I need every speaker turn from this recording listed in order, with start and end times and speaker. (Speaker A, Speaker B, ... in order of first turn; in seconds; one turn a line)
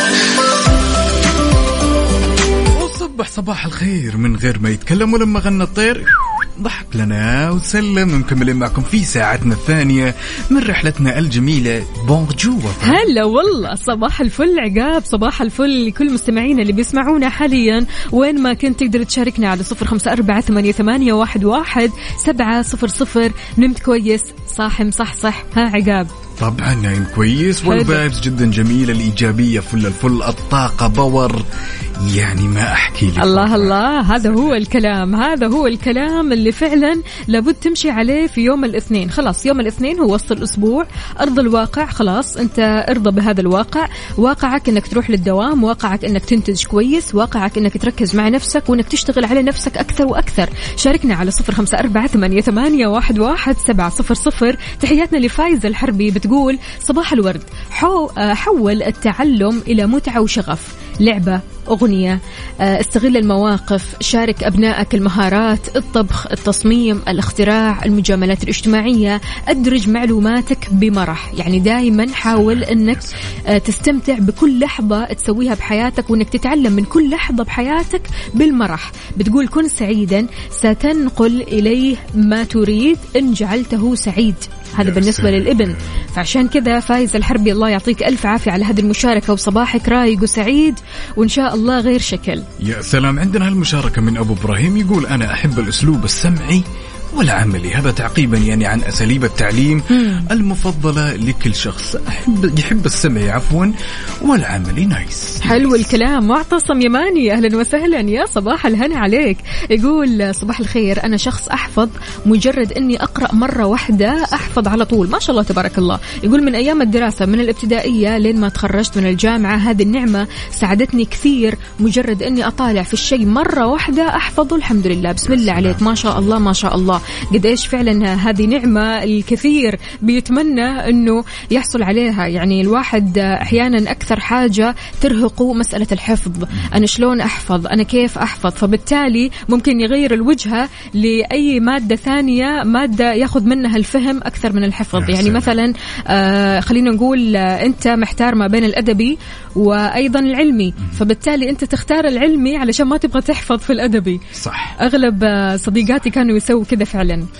Speaker A: 2.8-13.1
Speaker B: 12.8-26.1
Speaker A: 26.4-31.4
Speaker B: 27.6-28.0
Speaker A: 32.0-34.6
Speaker B: 33.2-92.5
Speaker A: 72.2-73.2
Speaker A: 84.8-86.0
Speaker A: 92.6-105.9
Speaker B: 99.9-100.2
Speaker B: 105.4-154.2
Speaker A: 125.2-126.4
Speaker A: 136.5-136.8
Speaker A: 144.9-145.5
Speaker A: 154.3-154.8
Speaker B: 154.8-157.2